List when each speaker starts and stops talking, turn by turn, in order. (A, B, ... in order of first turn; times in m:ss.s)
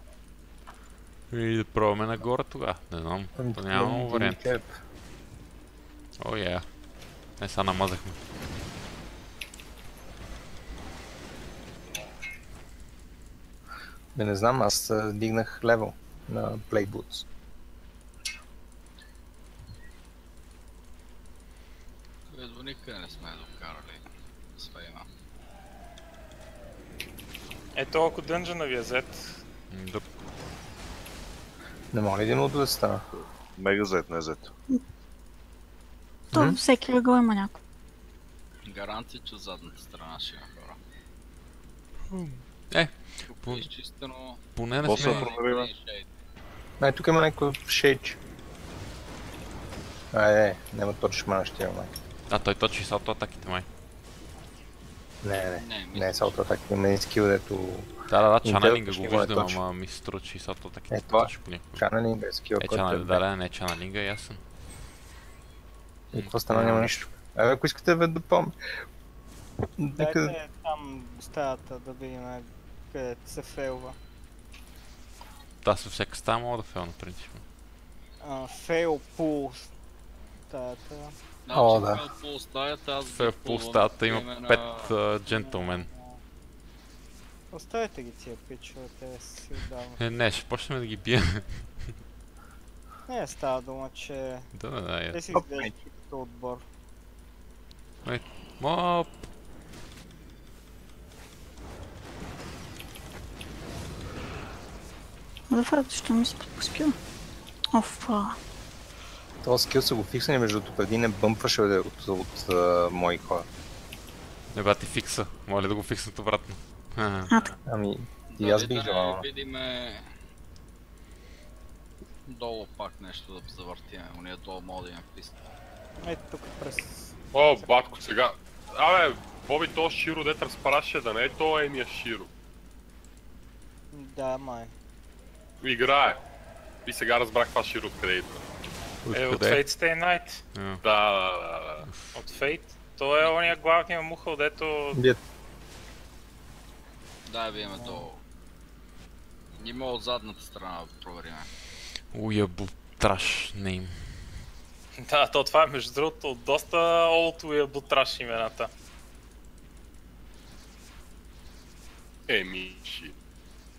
0:01.3-0:04.5 A
0:03.4-0:04.7 B
0:06.2-0:06.6 A
0:07.4-0:08.2 A
0:14.1-0:17.2 B
0:22.3-0:24.0 C
0:24.6-0:25.0 C
0:27.8-0:29.4 D
0:29.7-0:30.0 A
0:31.9-0:33.0 B
0:33.6-0:34.5 E
0:36.3-0:37.6 F
0:36.3-0:36.6 B
0:38.7-0:40.8 C
0:42.1-0:43.7 A
0:43.3-0:46.1 C
0:44.6-0:45.3 A
0:44.8-0:45.7 E
0:46.8-0:48.2 B
0:50.1-0:51.9 B
0:52.3-0:53.7 A
0:55.2-0:57.9 B
0:55.3-0:56.3 C
0:58.1-1:01.8 A
0:58.4-0:59.6 B
1:00.9-1:03.2 B
1:02.6-1:04.4 A
1:06.1-1:08.5 B
1:06.2-1:07.1 A
1:09.8-1:10.3 B
1:10.0-1:14.0 G
1:15.6-1:17.4 A
1:18.2-1:19.7 G
1:20.5-1:21.2 G
1:21.5-1:24.9 C
1:21.5-1:22.0 B
1:23.0-1:25.9 A
1:25.3-1:26.2 G
1:27.5-1:30.0 G
1:30.0-1:31.8 A
1:33.1-1:34.5 G
1:34.5-1:35.2 A
1:35.1-1:36.6 G
1:35.3-1:35.7 B
1:38.0-1:39.2 A
1:45.5-1:46.9 F
1:47.7-1:48.4 F
1:49.4-1:53.4 B
1:54.5-1:57.3 A
1:57.6-1:59.2 B
1:58.3-2:00.1 C
2:02.3-2:05.4 C
2:06.0-2:08.0 G
2:07.3-2:12.3 H
2:13.9-2:14.7 G
2:15.6-2:16.2 H
2:16.8-2:18.4 H
2:19.0-2:19.6 A
2:19.1-2:20.4 D
2:20.5-2:20.8 A
2:20.8-2:21.8 H
2:22.1-2:25.0 D
2:24.9-2:25.2 B
2:27.3-2:28.2 C
2:27.7-2:28.1 G
2:29.6-2:31.5 C
2:32.1-2:34.2 A
2:35.0-2:38.7 D
2:42.3-2:43.1 H